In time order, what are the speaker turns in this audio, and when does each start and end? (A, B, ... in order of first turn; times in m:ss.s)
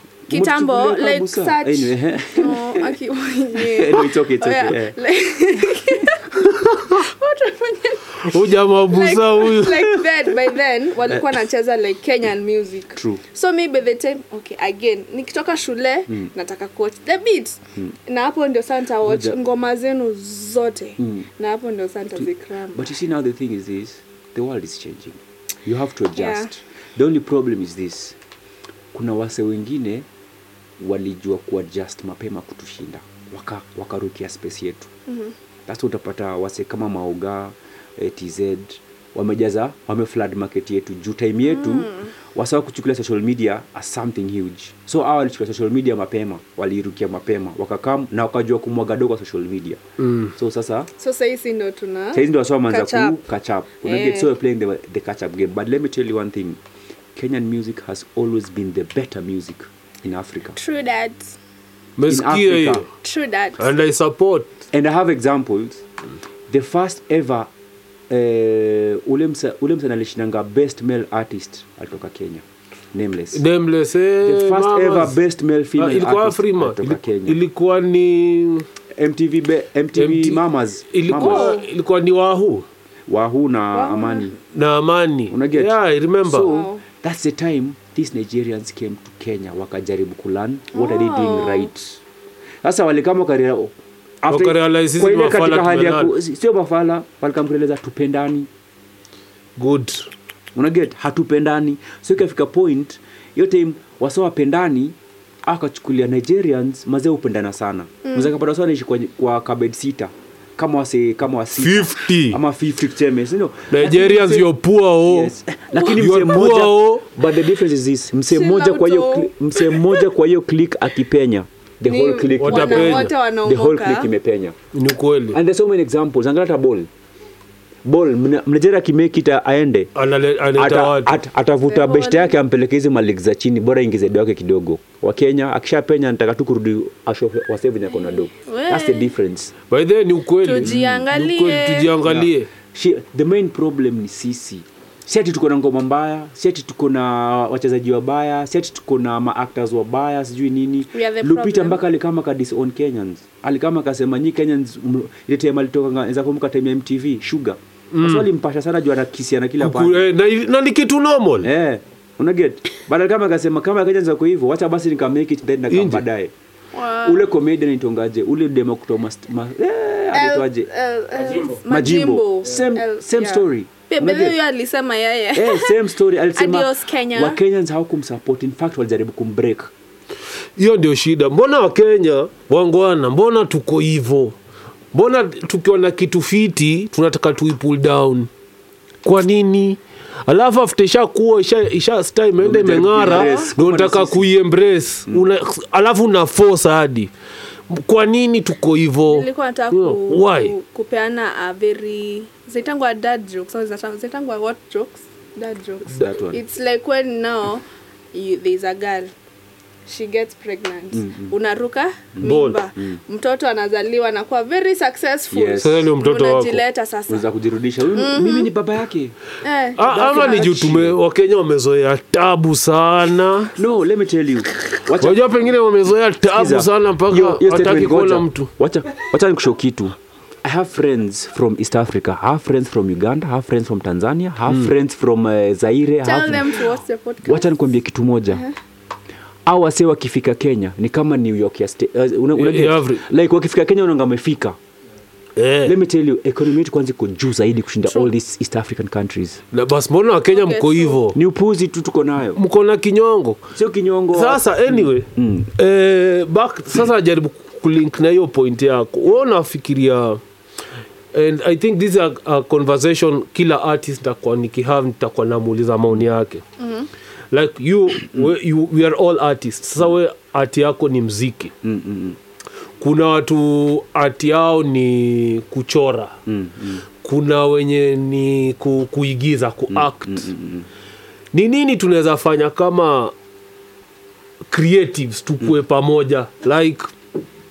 0:00.3-0:02.9 A
0:00.3-0:22.9 B
0:03.6-0:05.0 A
0:08.2-0:09.9 C
0:13.0-0:13.2 A
0:19.0-0:19.4 A
0:21.0-0:21.3 A
0:22.2-0:28.2 A
0:26.2-0:26.5 B
0:28.9-0:30.1 A
0:30.8-0:34.9 A
0:35.1-0:35.3 B
0:35.7-0:49.8 A
0:41.5-0:42.1 B
0:50.0-0:50.3 C
0:50.4-0:50.9 A
0:51.0-0:53.2 B
0:52.1-0:56.6 A
0:53.8-0:54.3 B
0:57.2-1:00.6 A
1:00.6-1:01.4 B
1:02.0-1:02.9 C
1:02.1-1:02.8 A
1:03.0-1:03.7 B
1:03.6-1:04.5 C
1:04.7-1:05.8 A
1:06.5-1:07.5 A
1:08.1-1:13.4 A
1:13.3-1:15.2 C
1:14.2-1:17.4 A
1:15.8-1:18.7 C
1:19.0-1:21.6 A
1:20.0-1:22.7 C
1:21.2-1:21.7 B
1:23.1-1:24.4 A
1:23.7-1:24.3 B
1:24.5-1:26.5 C
1:25.3-1:32.0 A
1:26.4-1:26.8 B
1:30.7-1:31.7 B
1:32.6-1:38.5 A
1:34.3-1:36.1 C
1:39.6-1:40.1 C
1:40.6-1:54.5 A
1:48.0-1:48.3 B
1:51.6-1:52.4 C
1:53.7-1:57.0 C
1:55.0-2:04.6 A
1:58.3-2:00.0 B
2:01.9-2:04.1 B
2:02.4-2:03.1 C
2:04.7-2:05.4 C
2:05.3-2:06.9 A
2:07.8-2:09.9 A
2:10.0-2:11.1 C
2:10.6-2:19.5 A
2:11.7-2:12.4 B
2:18.2-2:19.1 B
2:19.7-2:22.5 C
2:20.4-2:21.9 B
2:20.6-2:21.0 A
2:22.0-2:40.1 A
2:30.9-2:31.8 B
2:37.9-2:38.3 C
2:39.6-2:41.5 C
2:41.4-2:46.3 A
2:45.7-2:46.0 C
2:46.7-2:47.3 B
2:47.0-2:50.7 A
2:50.1-2:55.8 B
2:51.2-2:51.6 C
2:51.6-2:54.4 A
2:55.4-2:59.7 A
2:56.3-2:57.4 B
3:00.6-3:04.4 C
3:04.9-3:08.3 C
3:09.0-3:17.1 C
3:12.4-3:14.3 A
3:13.0-3:13.5 B
3:17.7-3:20.5 C
3:19.1-3:29.1 B
3:25.9-3:26.4 A
3:29.9-3:37.2 B
3:30.9-3:31.3 A
3:32.2-3:33.0 A
3:32.2-3:32.6 C
3:35.3-3:35.9 A
3:35.6-3:36.6 C
3:37.1-3:39.2 A
3:37.9-3:38.5 B
3:39.4-3:40.6 B
3:39.8-3:43.5 C
3:39.8-3:41.0 A
3:43.6-3:45.4 A
3:45.0-3:48.5 C
3:46.3-3:56.6 A
3:56.0-3:57.5 B
3:57.2-3:58.4 A
3:58.3-3:58.6 B
3:59.5-4:04.6 A
4:02.4-4:03.0 C
4:05.4-4:05.8 C
4:05.6-4:09.4 A
4:09.5-4:11.2 C
4:10.3-4:11.0 B
4:11.1-4:12.4 A
4:12.4-4:13.5 C
4:13.5-4:15.5 A
4:14.1-4:20.2 C
4:21.1-4:26.4 C
4:26.6-4:26.9 B
4:27.3-4:31.5 C
4:31.6-4:32.2 A
4:32.8-4:36.2 C
4:36.3-4:36.9 A
4:37.0-4:40.3 C
4:39.7-4:40.7 A
4:41.3-4:43.1 C
4:44.5-4:46.9 C